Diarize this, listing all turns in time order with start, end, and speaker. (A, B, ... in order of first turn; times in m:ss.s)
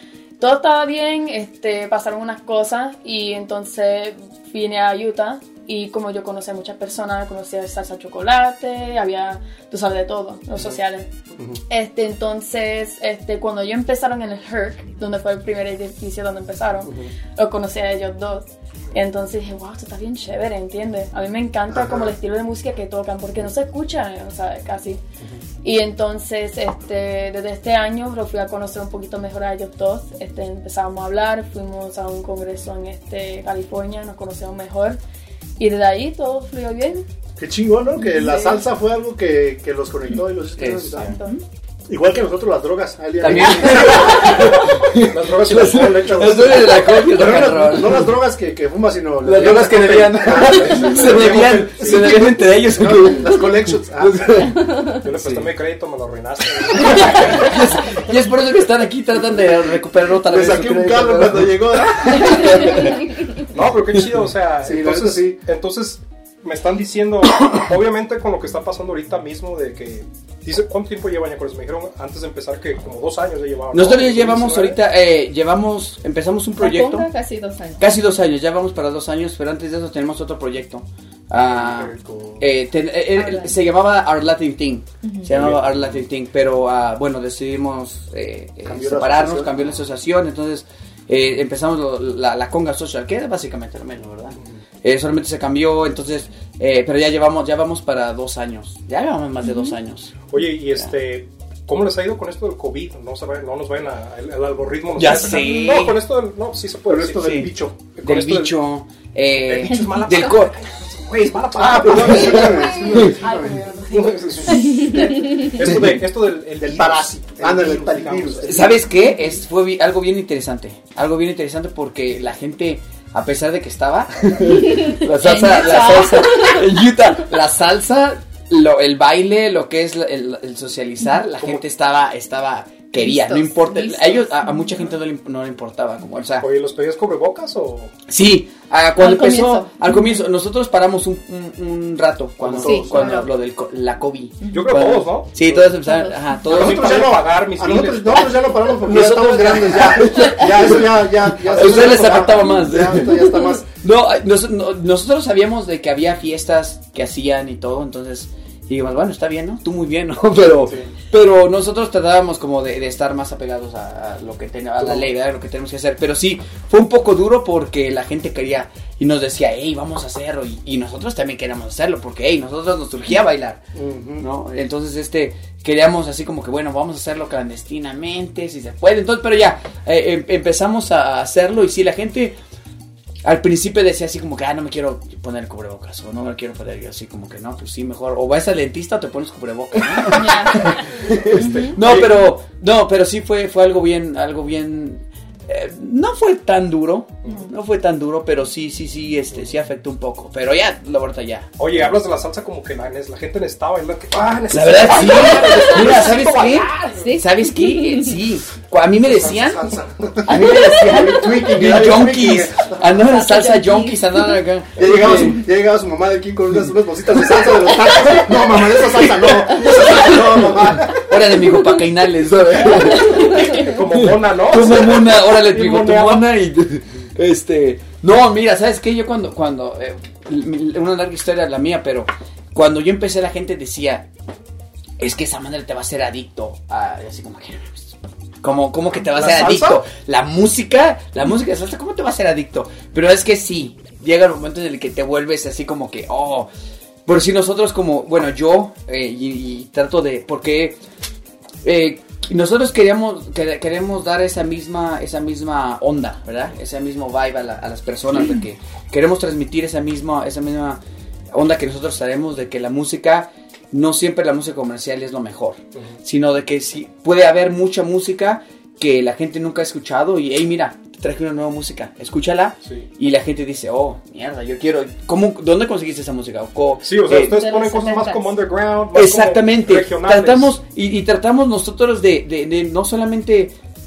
0:00.4-0:11.1 A
0:11.7-0:25.0 A
0:16.8-0:17.1 B
0:21.7-0:22.2 B
0:25.6-0:35.0 A
0:35.6-0:37.0 A
0:37.4-0:41.2 B
0:38.0-0:38.6 C
0:40.6-0:41.2 D
0:41.0-0:41.4 A
0:41.9-0:44.7 B
0:43.2-0:48.1 D
0:44.3-0:47.0 E
0:45.9-0:54.6 B
0:49.2-0:55.5 D
0:50.2-0:52.4 E
0:54.8-0:57.8 E
0:56.8-1:03.0 D
0:59.3-1:03.0 B
1:03.5-1:14.8 E
1:04.6-1:05.4 B
1:13.7-1:17.1 D
1:16.6-1:17.9 C
1:17.8-1:40.2 D
1:21.4-1:22.5 B
1:23.2-1:23.5 C
1:25.0-1:25.3 C
1:25.3-1:26.0 E
1:25.3-1:25.6 B
1:28.6-1:29.8 B
1:39.4-1:39.8 C
1:40.3-1:48.6 E
1:45.0-1:46.0 D
1:46.9-1:47.8 B
1:47.2-1:47.5 D
1:48.0-1:50.6 D
1:49.4-1:53.2 E
1:51.5-1:53.6 B
1:52.0-1:55.4 A
1:53.9-1:58.7 E
1:54.5-1:55.5 C
1:55.6-1:55.9 D
1:56.6-1:58.9 B
1:58.4-2:16.5 D
2:04.5-2:06.8 C
2:11.4-2:11.6 E
2:13.0-2:14.7 C
2:16.4-2:17.9 E
2:18.1-2:27.1 D
2:19.0-2:20.2 C
2:22.4-2:23.2 B
2:22.6-2:23.3 C
2:24.4-2:24.8 C
2:24.5-2:25.8 E
2:25.8-2:26.2 C
2:26.5-2:28.4 E
2:26.5-2:33.7 B
2:28.7-2:30.9 D
2:31.4-2:53.6 D
2:31.5-2:32.3 E
2:40.4-2:40.9 B
2:44.8-2:45.1 E
2:53.8-2:54.3 B
2:54.2-3:02.4 D
3:03.2-3:21.5 D
3:10.0-3:12.3 E
3:10.1-3:10.8 C
3:11.3-3:11.8 C
3:21.6-3:27.0 E
3:24.5-3:29.7 D
3:27.0-3:28.2 C
3:29.0-3:33.0 B
3:30.2-3:35.4 D
3:33.0-3:34.4 C
3:34.8-3:41.5 B
3:38.0-3:54.1 D
3:42.8-3:46.3 E
3:42.8-3:43.8 C
3:55.0-4:06.5 D
3:59.0-3:59.8 E
4:07.1-4:10.8 D
4:11.6-4:37.3 D
4:36.8-4:40.6 E
4:37.2-4:38.4 A
4:38.9-4:43.6 D